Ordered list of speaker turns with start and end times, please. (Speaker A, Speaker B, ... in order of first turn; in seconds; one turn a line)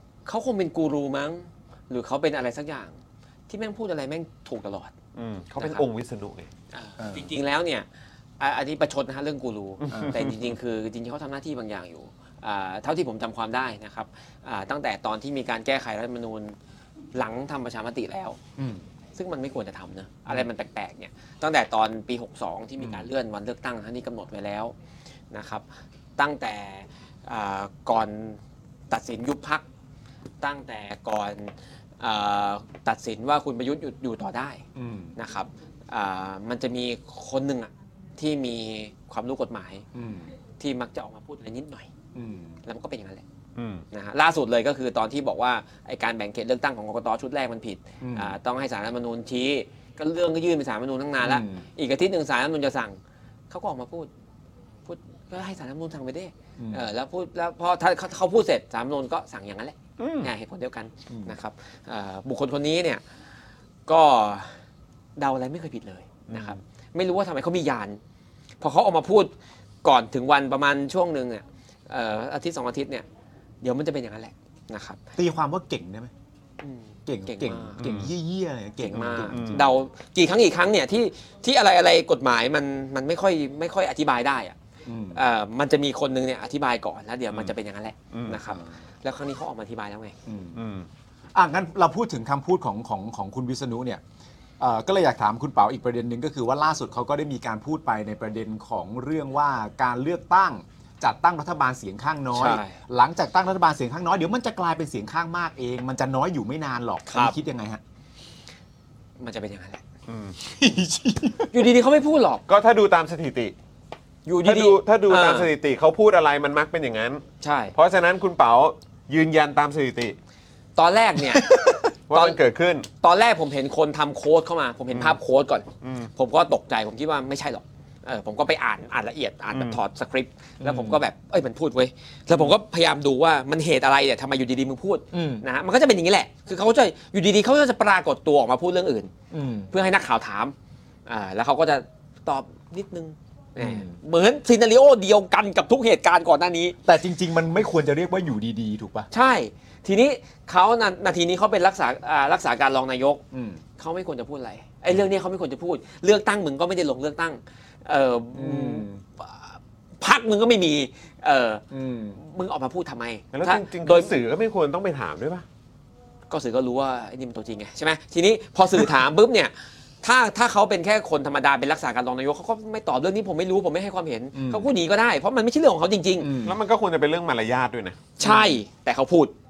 Speaker A: 0.3-2.9
Speaker A: 3.5-4.9
Speaker B: 5.2-6.5
Speaker A: 5.6-5.8
Speaker A: 6.7-7.9
Speaker C: 7.0-7.3
Speaker A: 8.4-16.6
Speaker B: 9.8-10.5
Speaker C: 9.9-10.2
Speaker A: 17.1-18.4
Speaker C: 18.6-18.8
Speaker A: 19.2-24.7
Speaker A: 25.3-25.6
Speaker A: 26.2-29.6
Speaker A: 30.4-34.6
Speaker C: 34.8-35.1
Speaker A: 35.2-39.9
Speaker C: 39.9-40.3
Speaker A: 40.6-41.9
Speaker C: 42.1-42.6
Speaker A: 42.6-43.2
Speaker B: 43.6-43.8
Speaker A: 43.9-53.0
Speaker C: 48.0-48.4
Speaker C: 51.2-51.6
Speaker A: 53.5-54.1
Speaker A: 54.9-63.0
Speaker C: 56.6-56.9
Speaker B: 60.0-60.3
Speaker C: 61.1-61.4
Speaker A: 63.9-64.5
Speaker A: 65.2-68.0
Speaker B: 66.3-66.6
Speaker A: 68.6-69.3
Speaker A: 69.8-73.0
Speaker A: 73.6-75.0
Speaker C: 75.2-76.1
Speaker A: 76.6-77.8
Speaker C: 77.1-79.6
Speaker B: 77.8-78.1
Speaker A: 78.8-84.6
Speaker B: 78.9-79.7
Speaker C: 84.9-85.2
Speaker A: 85.1-90.2
Speaker B: 88.1-88.4
Speaker C: 88.5-88.7
Speaker C: 90.3-90.6
Speaker B: 90.5-90.9
Speaker C: 91.3-94.0
Speaker C: 94.6-107.8
Speaker A: 102.3-102.8
Speaker A: 107.1-107.4
Speaker A: 109.2-109.8
Speaker B: 110.1-110.4
Speaker C: 110.4-111.5
Speaker A: 111.5-112.4
Speaker B: 112.5-113.5
Speaker A: 114.3-115.5
Speaker B: 114.4-117.2
Speaker A: 117.4-117.7
Speaker B: 117.8-120.2
Speaker A: 120.8-121.5
Speaker B: 122.1-122.9
Speaker A: 122.1-122.4
Speaker A: 123.0-139.1
Speaker B: 124.9-125.2
Speaker B: 125.8-126.1
Speaker C: 130.6-131.0
Speaker C: 135.1-135.4
Speaker C: 139.3-139.7
Speaker A: 139.7-140.6
Speaker A: 141.1-146.8
Speaker C: 143.6-143.9
Speaker C: 146.8-149.1
Speaker A: 149.1-153.2
Speaker C: 153.3-153.6
Speaker A: 153.8-161.6
Speaker C: 158.3-159.0
Speaker C: 161.7-162.2
Speaker A: 162.2-164.2
Speaker B: 163.3-165.4
Speaker A: 166.3-176.3
Speaker C: 174.3-174.7
Speaker C: 176.2-176.6
Speaker B: 176.4-178.1
Speaker A: 178.2-179.3
Speaker C: 178.2-178.6